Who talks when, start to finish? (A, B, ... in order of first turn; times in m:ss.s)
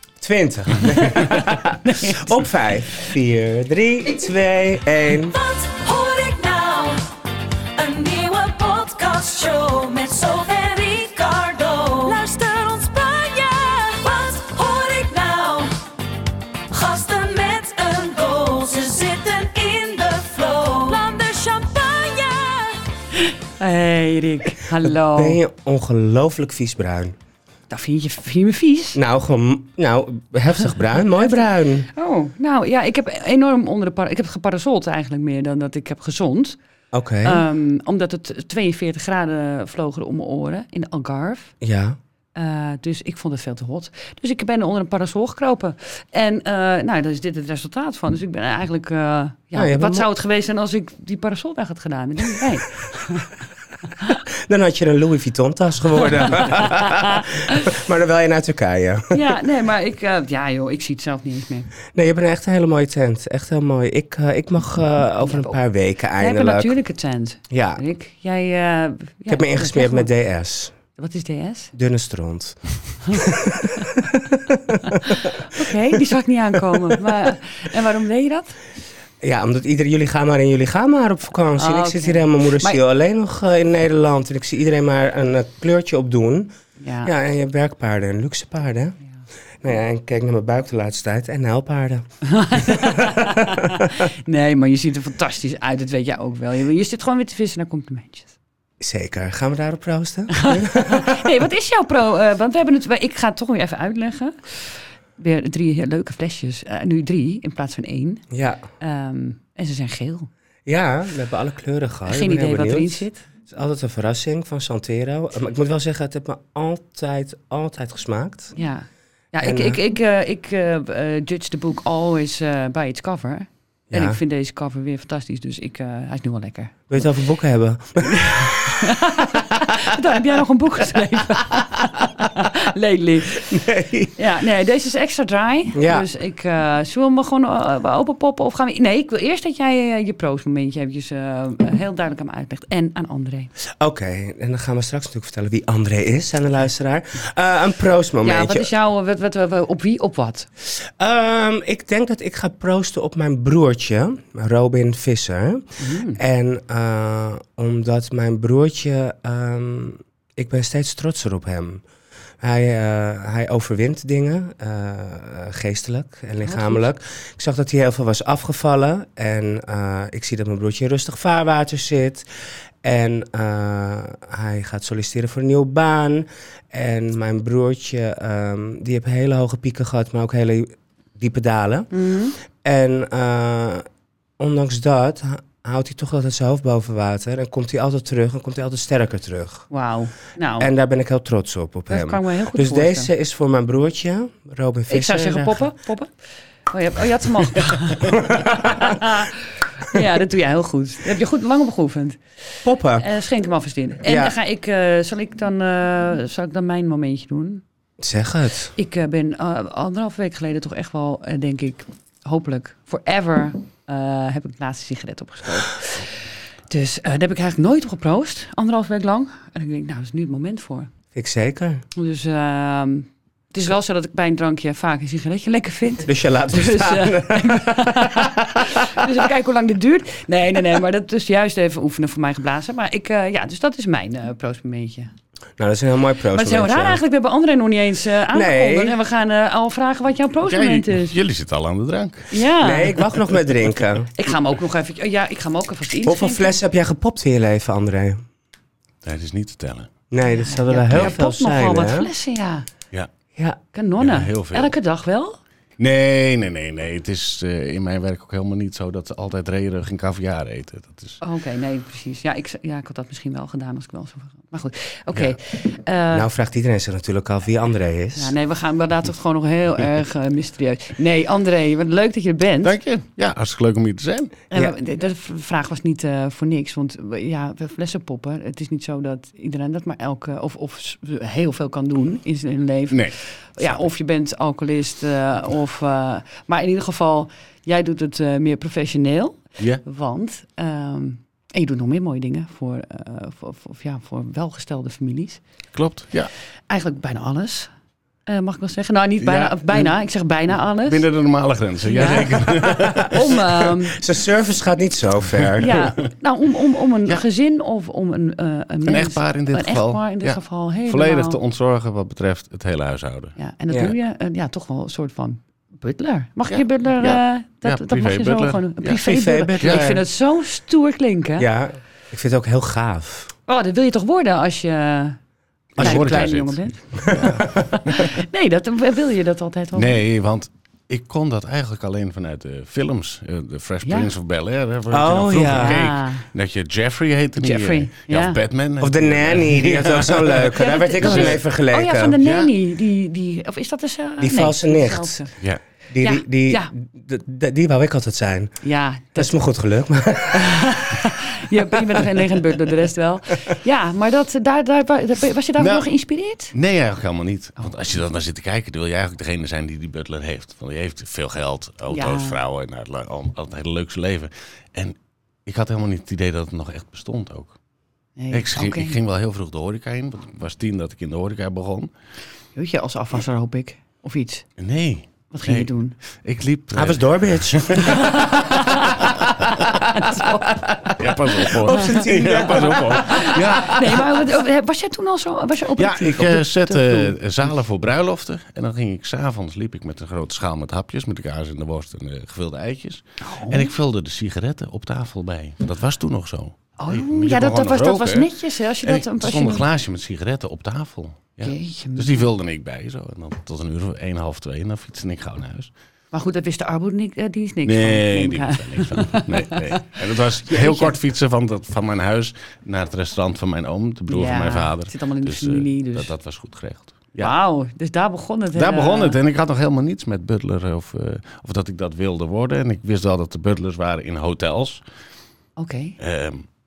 0:00.2-0:05.4 A
0:00.8-0:02.5 B
0:05.2-0:07.1 C
0:07.8-0:15.7 C
0:16.7-0:22.8 C
0:23.6-0:25.4 B
0:24.8-0:27.2 A
0:27.7-0:29.0 B
0:29.0-0:31.9 A
0:31.9-0:36.6 B
0:36.9-0:37.4 A
0:37.2-0:41.5 B
0:41.6-0:42.0 A
0:42.4-0:53.3 B
0:49.6-0:50.1 A
0:54.1-0:59.2 A
0:56.2-0:57.6 B
0:59.1-1:01.7 B
1:01.9-1:06.8 A
1:05.2-1:05.6 B
1:06.2-1:10.1 B
1:07.5-1:07.8 A
1:09.3-1:10.7 A
1:11.0-1:11.7 B
1:11.7-1:15.4 A
1:14.9-1:18.6 B
1:16.5-1:17.3 A
1:19.2-1:29.0 A
1:21.6-1:22.8 B
1:26.8-1:27.1 B
1:29.6-1:32.0 A
1:32.2-1:38.3 B
1:32.6-1:33.9 A
1:38.8-1:41.3 A
1:40.3-1:48.2 B
1:48.3-1:48.6 A
1:48.8-1:50.3 B
1:50.7-1:58.6 A
1:52.1-1:53.2 B
1:58.6-2:06.8 B
1:59.4-1:59.8 A
2:03.9-2:04.2 A
2:06.9-2:08.8 A
2:08.0-2:13.6 B
2:13.5-2:14.1 A
2:14.2-2:23.5 B
2:15.7-2:16.1 A
2:23.8-2:28.7 A
2:28.2-2:30.5 B
2:30.6-2:41.8 A
2:35.8-2:36.2 B
2:42.4-2:52.3 A
2:46.4-2:46.8 B
2:52.8-3:01.9 A
3:01.9-3:02.4 B
3:02.6-3:03.8 A
3:04.4-3:09.7 A
3:09.7-3:10.7 B
3:10.6-3:15.6 A
3:11.9-3:13.1 B
3:14.9-3:16.1 B
3:16.7-3:22.2 B
3:18.1-3:19.0 A
3:22.6-3:23.1 A
3:23.0-3:27.6 B
3:24.0-3:24.4 A
3:28.0-3:28.8 A
3:28.8-3:40.9 B
3:41.1-3:41.8 A
3:42.0-3:55.1 B
3:46.0-3:49.1 A
3:55.6-3:57.0 A
3:56.3-4:01.2 B
3:58.3-3:59.0 A
4:00.4-4:02.3 D
4:02.3-4:03.0 B
4:02.6-4:04.1 A
4:04.2-4:06.6 B
4:06.0-4:08.2 A
4:09.0-4:09.9 D
4:10.1-4:12.1 A
4:10.2-4:12.7 B
4:13.7-4:15.4 B
4:14.0-4:14.7 D
4:15.8-4:21.2 D
4:21.2-4:26.3 B
4:26.1-4:28.3 A
4:28.2-4:32.7 B
4:32.6-4:34.3 D
4:34.5-4:55.4 B
4:42.9-4:43.8 D
4:55.7-4:56.3 D
4:56.7-4:57.7 B
4:58.3-5:01.0 B
4:59.2-4:59.9 D
5:00.8-5:03.2 D
5:01.8-5:04.0 B
5:03.9-5:05.8 A
5:05.6-5:11.4 B
5:08.9-5:13.4 D
5:13.4-5:21.5 B
5:16.5-5:19.0 D
5:19.0-5:20.0 A
5:19.6-5:19.9 D
5:21.4-5:23.3 A
5:23.5-5:25.2 B
5:25.8-5:28.0 D
5:25.8-5:26.3 A
5:25.8-5:30.0 B
5:27.0-5:27.4 A
5:29.8-5:41.4 D
5:33.8-5:34.1 B
5:34.9-5:35.8 A
5:35.5-5:36.3 B
5:37.4-5:38.4 B
5:38.8-5:42.2 A
5:40.5-5:45.3 B
5:42.2-5:42.5 D
5:44.2-5:45.2 A
5:45.9-5:48.6 A
5:46.0-5:46.7 B
5:48.6-5:49.4 B
5:49.2-5:50.8 A
5:50.3-5:56.5 B
5:55.6-5:55.9 D
5:56.5-6:07.6 D
6:01.9-6:02.4 B
6:08.2-6:09.0 B
6:08.3-6:11.9 D
6:12.6-6:14.5 B
6:14.6-6:19.8 D
6:15.3-6:16.0 B
6:16.8-6:18.6 A
6:17.8-6:21.9 B
6:20.9-6:23.4 A
6:21.0-6:24.2 D
6:23.0-6:27.2 B
6:25.8-6:45.7 D
6:33.2-6:33.7 B
6:36.8-6:39.7 B
6:41.4-6:42.3 B
6:46.1-6:49.9 B
6:47.6-6:57.3 D
6:50.5-6:51.0 B
6:54.1-6:56.1 B
6:57.2-6:59.2 B
6:58.5-7:04.8 D
7:05.6-7:06.0 B
7:06.0-7:06.5 D